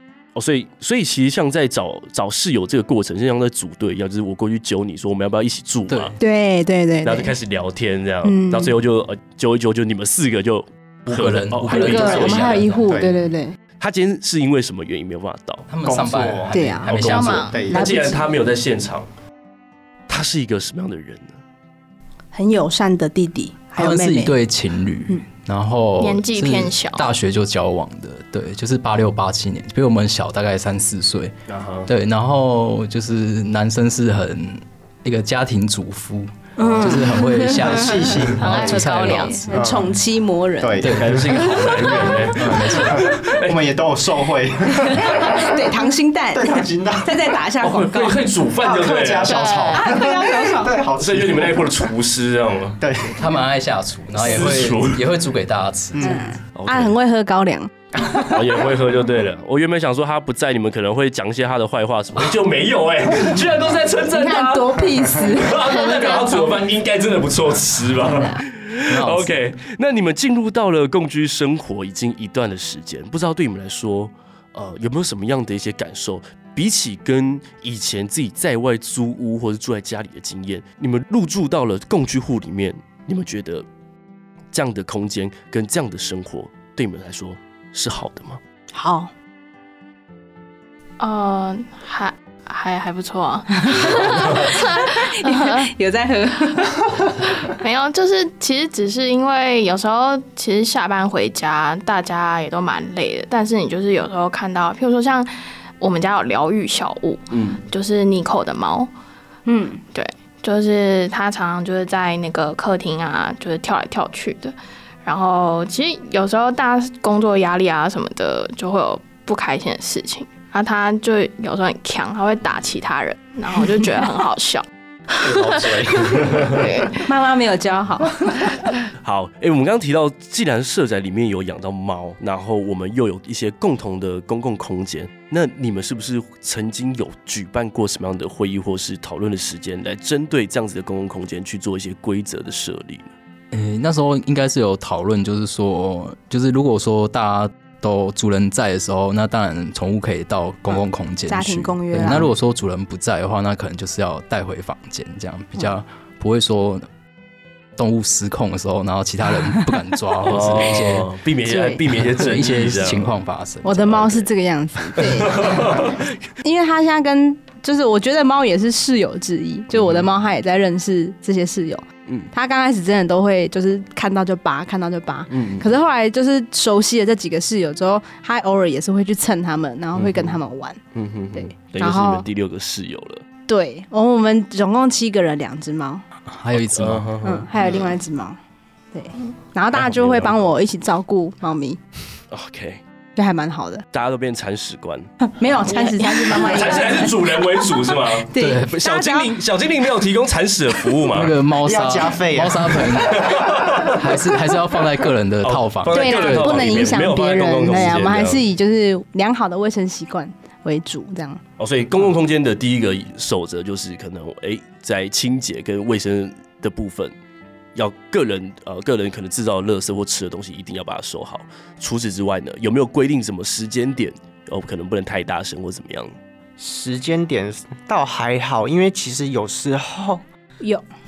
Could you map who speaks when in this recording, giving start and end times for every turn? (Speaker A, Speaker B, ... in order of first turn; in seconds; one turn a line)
Speaker A: 0.3-6.2
Speaker B: 5.9-6.2
Speaker C: 6.2-7.3
Speaker A: 7.0-12.7
Speaker C: 8.2-8.8
Speaker B: 11.1-12.9
Speaker C: 11.7-13.6
Speaker D: 12.9-13.2
Speaker A: 13.8-19.1
Speaker B: 15.7-17.6
Speaker C: 16.5-18.3
Speaker E: 17.0-17.6
Speaker D: 17.4-17.9
Speaker A: 20.1-21.4
Speaker C: 22.3-24.3
Speaker B: 23.8-31.3
Speaker E: 26.0-27.1
Speaker A: 31.5-31.9
Speaker B: 31.9-39.8
Speaker C: 36.6-40.8
Speaker D: 36.8-38.9
Speaker E: 38.4-39.4
Speaker D: 39.5-39.9
Speaker D: 40.6-42.0
Speaker B: 40.8-43.1
Speaker A: 40.9-43.8
Speaker D: 42.8-45.8
Speaker C: 44.8-48.2
Speaker D: 46.3-47.1
Speaker A: 47.6-49.5
Speaker D: 48.6-51.7
Speaker E: 49.3-49.9
Speaker C: 49.7-50.8
Speaker A: 51.0-52.8
Speaker D: 52.8-53.2
Speaker B: 53.1-56.2
Speaker A: 54.1-55.0
Speaker D: 56.0-56.2
Speaker C: 56.0-58.4
Speaker A: 56.5-56.9
Speaker A: 58.3-83.7
Speaker C: 64.1-66.5
Speaker C: 68.1-68.4
Speaker B: 68.9-69.3
Speaker A: 84.5-88.4
Speaker C: 88.7-89.1
Speaker E: 91.0-95.7
Speaker C: 93.7-97.4
Speaker E: 97.5-108.9
Speaker A: 107.3-107.6
Speaker C: 109.5-109.8
Speaker E: 109.9-127.0
Speaker D: 125.3-126.7
Speaker A: 125.7-126.6
Speaker C: 127.0-128.7
Speaker A: 129.0-143.1
Speaker B: 143.5-156.9
Speaker C: 151.3-152.3
Speaker B: 157.8-161.1
Speaker A: 160.2-163.1
Speaker C: 161.5-161.8
Speaker B: 161.9-164.3
Speaker C: 163.6-180.8
Speaker A: 165.0-166.0
Speaker A: 169.7-170.1
Speaker A: 175.3-175.7
Speaker A: 180.0-180.4
Speaker A: 180.9-183.2
Speaker C: 181.3-182.2
Speaker C: 183.5-186.0
Speaker B: 186.3-187.2
Speaker A: 186.5-187.5
Speaker C: 187.2-188.4
Speaker C: 188.9-191.8
Speaker A: 189.7-190.4
Speaker A: 192.3-192.8
Speaker C: 193.2-193.8
Speaker A: 193.9-195.1
Speaker C: 195.2-199.3
Speaker E: 195.7-196.9
Speaker A: 196.3-201.4
Speaker B: 198.4-198.7
Speaker B: 201.1-207.0
Speaker D: 201.6-203.3
Speaker A: 202.9-204.1
Speaker A: 205.4-208.4
Speaker C: 205.9-211.4
Speaker A: 211.6-217.2
Speaker A: 217.8-226.1
Speaker D: 226.6-230.2